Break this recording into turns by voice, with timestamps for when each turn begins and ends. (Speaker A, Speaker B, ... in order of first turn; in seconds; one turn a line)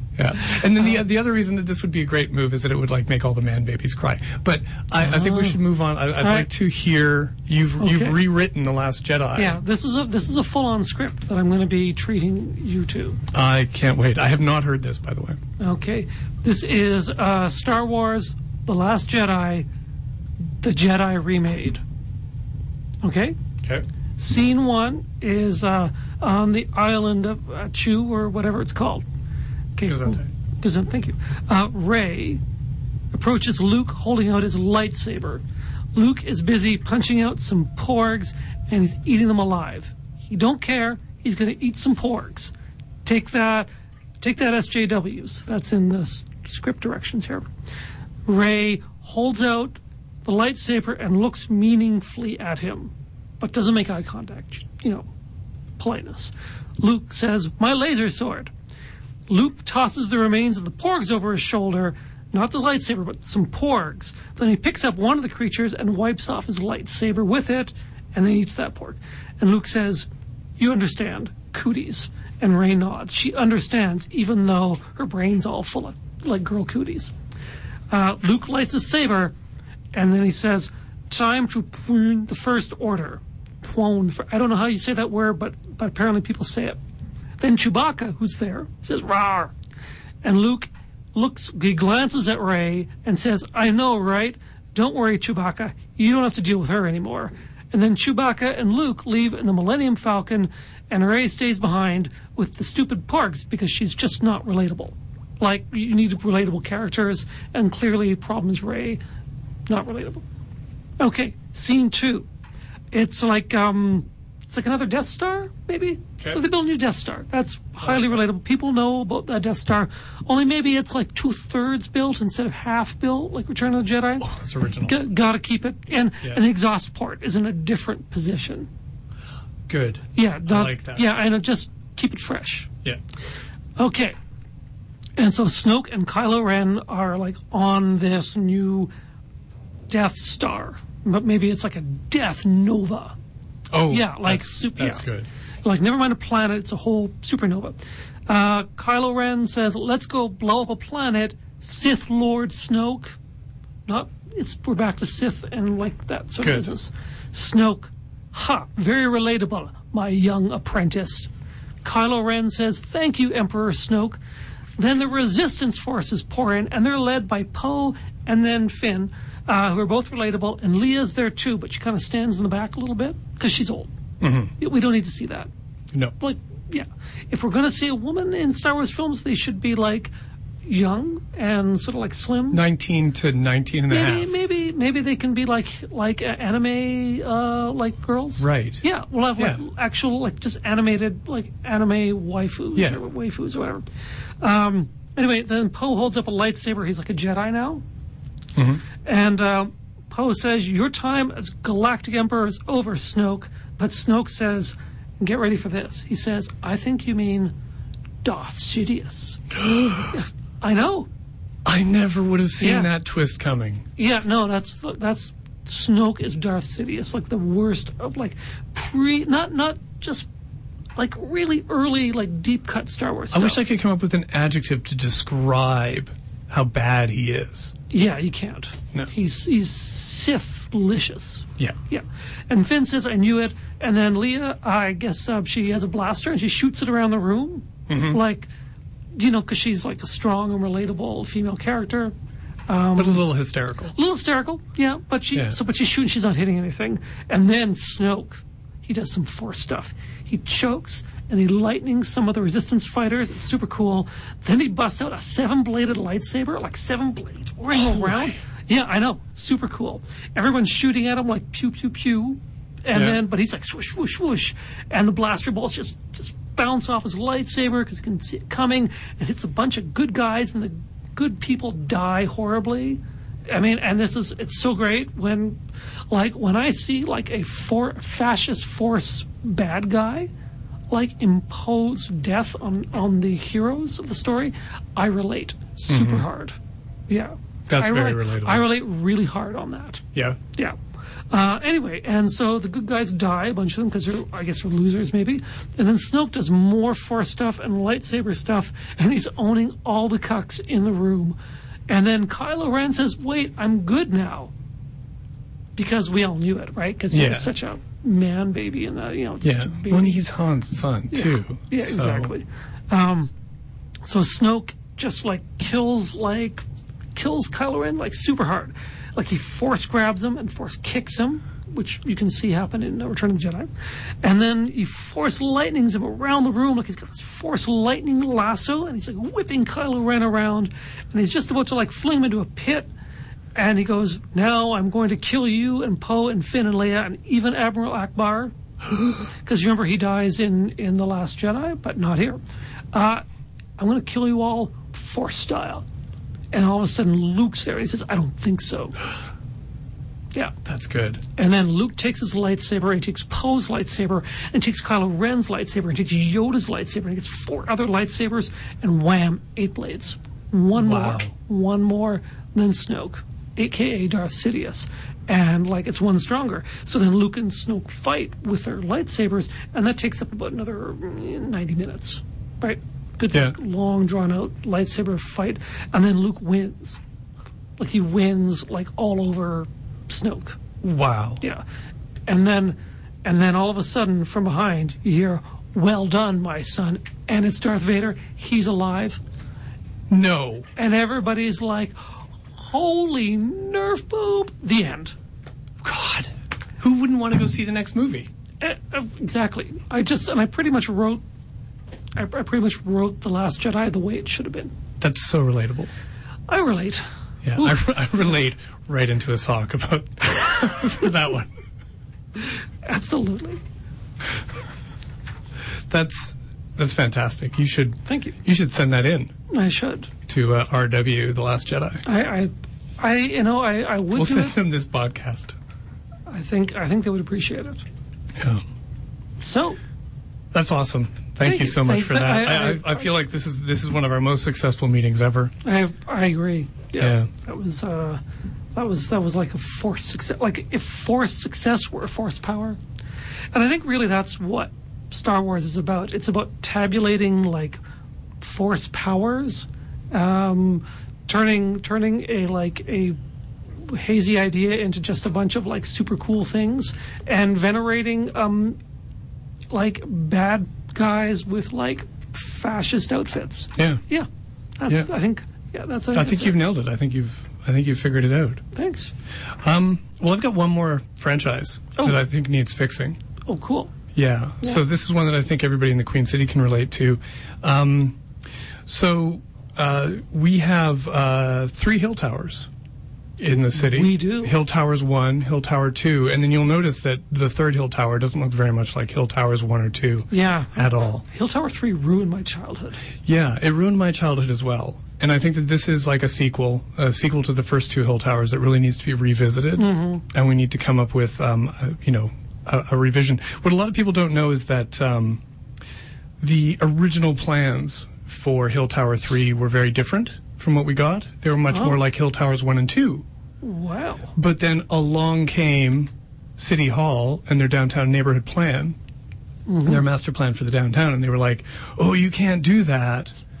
Speaker A: 0.2-9.6
Speaker B: 5.0-5.6
Speaker B: 6.2-6.5
Speaker B: 7.8-8.2
Speaker B: 9.3-13.2
Speaker A: 13.3-15.4
Speaker B: 15.6-19.6
Speaker B: 20.6-21.8
Speaker B: 23.0-23.4
Speaker B: 24.2-29.0
Speaker B: 29.8-32.4
Speaker A: 29.8-30.3
Speaker B: 33.1-35.4
Speaker B: 35.9-42.5
Speaker B: 43.0-43.7
Speaker B: 44.2-47.5
Speaker B: 48.2-55.1
Speaker B: 55.8-58.5
Speaker B: 59.3-70.1
Speaker B: 70.6-77.1
Speaker B: 77.9-79.3
Speaker B: 79.9-86.8
Speaker B: 87.4-89.5
Speaker B: 90.2-109.0
Speaker B: 109.7-110.2
Speaker B: 111.0-112.3
Speaker B: 112.9-124.3
Speaker A: 117.8-118.1
Speaker A: 124.2-125.0
Speaker B: 124.8-128.7
Speaker A: 129.7-131.1
Speaker B: 130.2-132.7
Speaker B: 133.8-134.2
Speaker B: 135.2-138.9
Speaker B: 139.9-143.1
Speaker A: 143.7-145.3
Speaker B: 143.9-145.0
Speaker B: 145.6-153.2
Speaker B: 153.8-161.3
Speaker A: 156.4-156.7
Speaker B: 161.8-164.2
Speaker B: 164.8-173.9
Speaker A: 174.2-174.5
Speaker B: 174.6-175.5
Speaker B: 176.2-180.1
Speaker B: 180.6-182.6
Speaker A: 182.5-184.3
Speaker B: 183.9-193.8
Speaker A: 188.4-188.8
Speaker A: 189.3-189.6
Speaker B: 194.4-197.8
Speaker A: 198.6-198.8
Speaker B: 199.0-207.5
Speaker B: 208.2-209.5
Speaker A: 209.6-210.1
Speaker B: 210.1-211.1
Speaker A: 211.6-213.8
Speaker B: 212.6-212.9
Speaker B: 214.0-220.3
Speaker B: 220.9-223.6
Speaker A: 223.3-227.7
Speaker B: 227.9-238.5
Speaker A: 237.9-238.2
Speaker B: 239.1-242.1
Speaker B: 242.7-243.2
Speaker A: 242.9-243.9
Speaker B: 243.9-275.6
Speaker A: 257.7-258.4
Speaker A: 262.9-263.2
Speaker B: 276.1-280.3
Speaker B: 280.9-286.6
Speaker A: 285.9-286.3
Speaker B: 287.1-290.8
Speaker A: 287.7-288.7
Speaker B: 291.3-301.4
Speaker B: 301.9-304.5
Speaker B: 305.8-310.2
Speaker A: 307.1-307.5
Speaker A: 309.4-312.3
Speaker B: 311.1-313.3
Speaker B: 314.0-323.7
Speaker B: 324.2-332.9
Speaker B: 333.5-338.5
Speaker B: 339.4-342.4
Speaker B: 342.9-343.2
Speaker B: 343.8-345.8
Speaker B: 346.5-349.0
Speaker A: 350.6-351.2
Speaker B: 351.4-377.0
Speaker A: 360.7-361.3
Speaker A: 373.3-373.6
Speaker B: 377.8-380.6
Speaker A: 380.8-381.4
Speaker B: 382.3-389.2
Speaker A: 390.1-390.7
Speaker B: 390.8-392.0
Speaker B: 392.5-395.1
Speaker A: 395.8-398.3
Speaker B: 398.6-401.2
Speaker B: 402.1-404.7
Speaker A: 405.0-405.9
Speaker B: 406.5-407.0
Speaker A: 407.4-411.5
Speaker B: 412.4-413.6
Speaker A: 415.9-419.3
Speaker B: 418.1-418.4
Speaker B: 419.5-420.1
Speaker A: 420.3-422.0
Speaker B: 422.1-424.5
Speaker A: 424.1-425.5
Speaker B: 426.3-427.8
Speaker A: 428.4-428.6
Speaker B: 429.4-429.8
Speaker A: 430.5-435.5
Speaker B: 431.4-433.1
Speaker B: 435.6-438.2
Speaker A: 437.0-437.3
Speaker B: 438.7-442.8
Speaker B: 443.5-447.8
Speaker B: 448.4-453.2
Speaker B: 453.8-458.8
Speaker B: 459.7-464.3
Speaker A: 463.8-464.0
Speaker B: 464.8-466.6
Speaker A: 466.1-468.6
Speaker B: 468.7-469.1
Speaker A: 469.6-473.2
Speaker B: 473.4-473.9
Speaker A: 474.1-478.2
Speaker A: 478.9-482.7
Speaker A: 483.4-491.2
Speaker B: 483.7-484.5
Speaker B: 490.3-493.0
Speaker A: 493.2-505.4
Speaker B: 499.8-500.2
Speaker A: 506.4-513.2
Speaker B: 511.7-512.0
Speaker B: 513.6-514.2
Speaker A: 514.3-519.0
Speaker B: 519.7-520.0
Speaker A: 519.8-523.4